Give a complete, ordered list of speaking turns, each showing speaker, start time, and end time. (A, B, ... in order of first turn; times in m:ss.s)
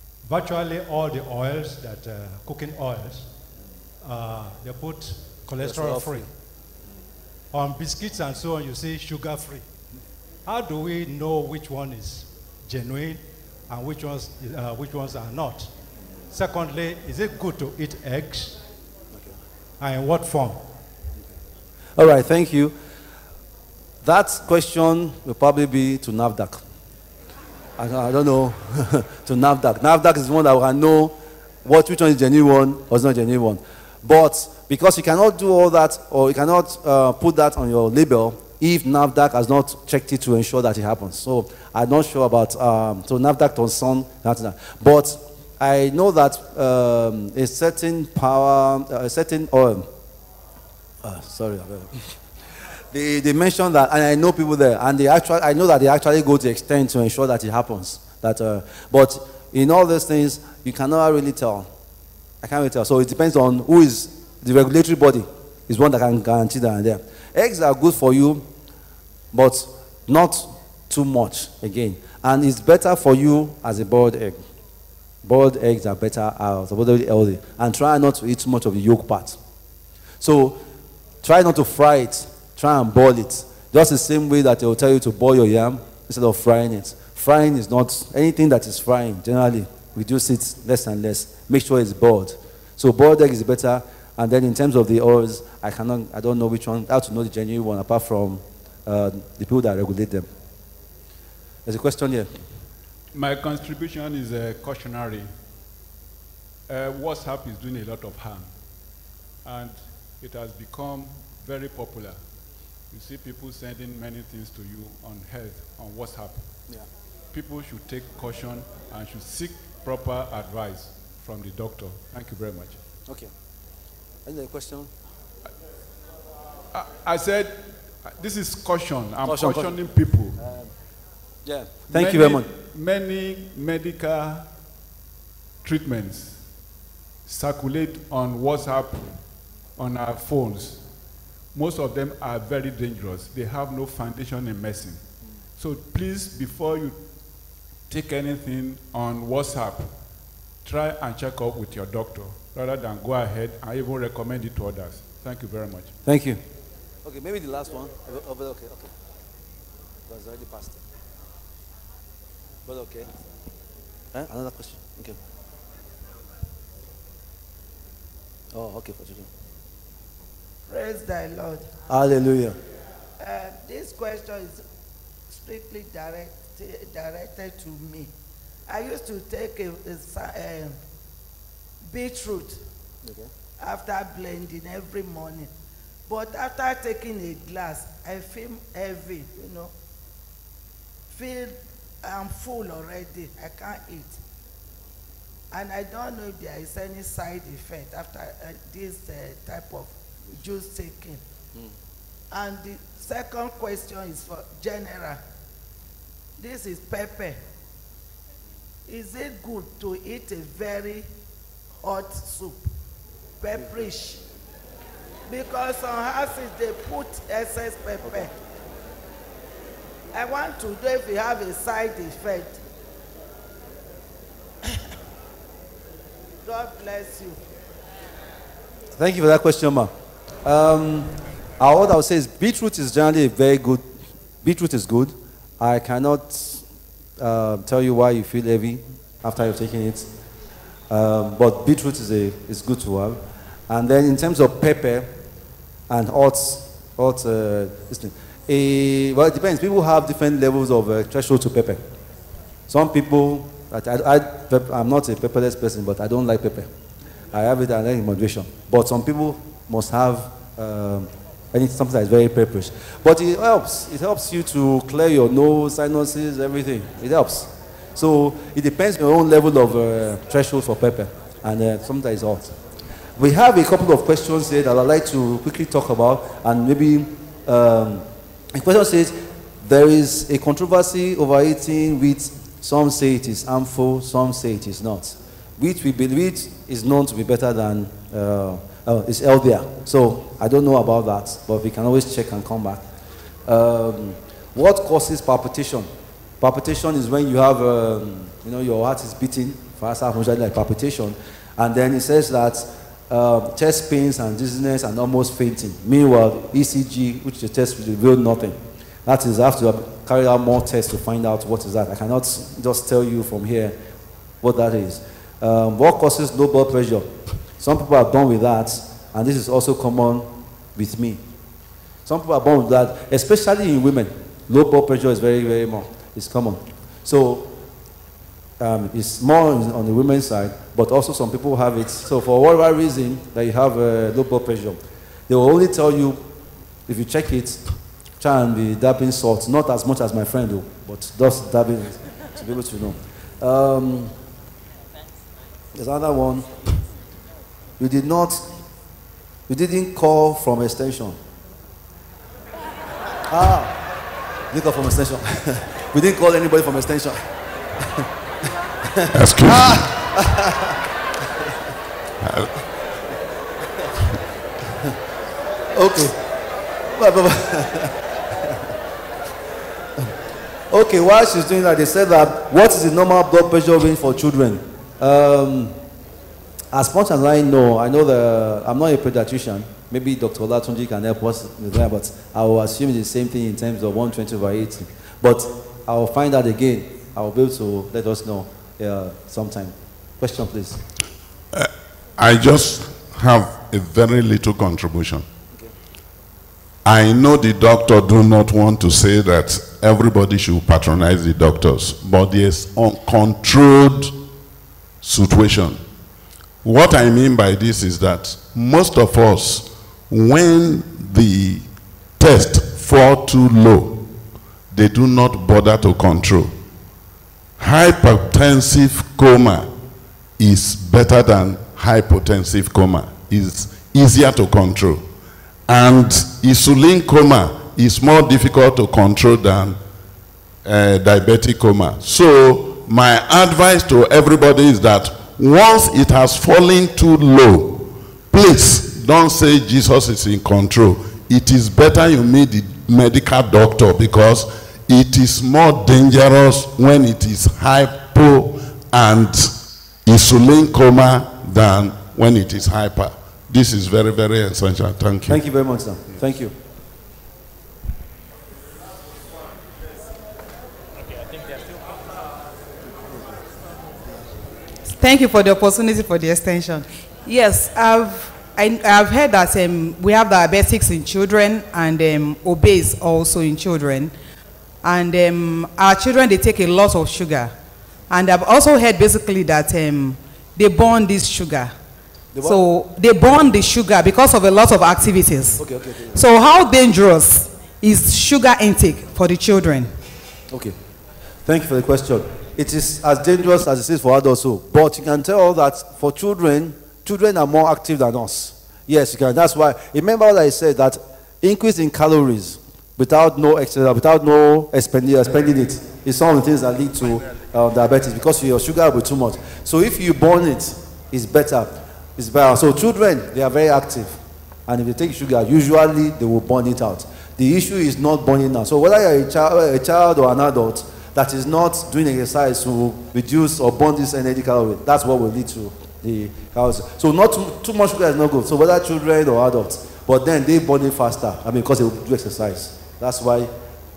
0:00.2-0:03.4 A
0:04.0-0:06.3 A
0:05.6-0:06.3 B
0:07.5-0:09.7 A
0:10.5-0:15.8 A
0:16.3-0:18.6 A
0:19.8-0:20.7 A
0:22.0-0:22.7 B
0:24.0-0:26.6 B
0:27.8-0:49.9 B
0:51.0-0:52.0 B
0:52.9-1:01.7 B
1:02.4-1:08.5 B
1:09.3-1:14.4 B
1:15.2-1:19.4 B
1:20.2-1:20.6 B
1:21.2-1:40.3 B
1:41.7-1:42.3 B
1:43.1-1:45.3 C
1:46.7-1:48.6 C
1:49.4-1:52.2 C
1:52.9-1:56.6 C
1:57.3-2:02.8 C
2:03.1-2:03.3 B
2:04.3-2:04.9 B
2:06.7-2:10.4 C
2:09.2-2:10.7 B
2:11.4-2:12.5 B
2:11.9-2:14.5 C
2:15.6-2:16.4 C
2:17.2-2:20.9 C
2:21.5-2:25.0 C
2:25.6-2:27.1 C
2:27.9-2:30.0 C
2:30.6-2:36.0 C
2:36.0-2:36.4 B
2:37.0-2:38.9 B
2:40.1-2:40.8 B
2:42.7-2:43.2 B
2:44.1-2:45.2 B
2:48.5-2:49.3 B
2:50.7-2:51.7 D
2:51.9-2:52.6 B
2:53.2-2:54.6 D
2:55.3-2:58.1 D
2:58.7-3:00.8 D
3:01.9-3:02.6 D
3:03.0-3:03.3 B
3:03.6-3:05.5 D
3:06.1-3:09.7 D
3:11.1-3:14.2 D
3:15.5-3:21.2 D
3:22.3-3:25.2 D
3:26.4-3:27.4 D
3:28.9-3:31.1 D
3:31.8-3:32.7 D
3:33.4-3:34.2 D
3:33.6-3:33.8 B
3:35.3-3:38.3 D
3:40.1-3:42.6 D
3:46.4-3:47.4 D
3:49.0-3:49.9 B
3:50.4-3:53.8 B
3:54.4-3:56.6 B
3:57.2-4:00.1 B
4:00.9-4:05.1 B
4:05.9-4:11.8 B
4:12.7-4:16.7 B
4:17.3-4:32.6 B
4:33.2-4:52.9 B
4:53.5-4:55.9 B
4:56.4-5:13.8 B
5:14.4-5:21.2 B
5:22.0-5:27.5 B
5:28.6-5:36.3 B
5:36.9-5:37.6 B
5:38.2-5:44.1 B
5:45.8-5:46.7 B
5:47.8-5:48.5 B
5:49.5-5:51.2 B
5:53.3-5:53.8 B
5:54.5-5:57.3 B
5:57.8-5:58.1 B
5:58.8-6:00.8 B
5:59.1-5:59.9 E
6:05.7-6:06.2 B
6:06.9-6:08.5 B
6:10.7-6:15.8 B
6:16.7-6:30.8 B
6:31.5-6:35.3 E
6:36.8-6:44.3 E
6:45.0-6:45.8 E
6:46.6-6:51.7 E
6:52.2-6:54.1 E
6:54.7-6:56.5 E
6:57.6-6:59.8 E
7:00.4-7:05.1 E
7:05.7-7:09.8 E
7:10.6-7:35.4 E
7:35.3-7:36.6 B
7:44.9-7:54.1 F
7:54.8-7:57.5 F
7:58.1-8:01.7 F
8:02.3-8:02.6 B
8:02.4-8:09.9 F
8:05.6-8:06.2 B
8:10.5-8:10.8 B
8:11.5-8:53.5 B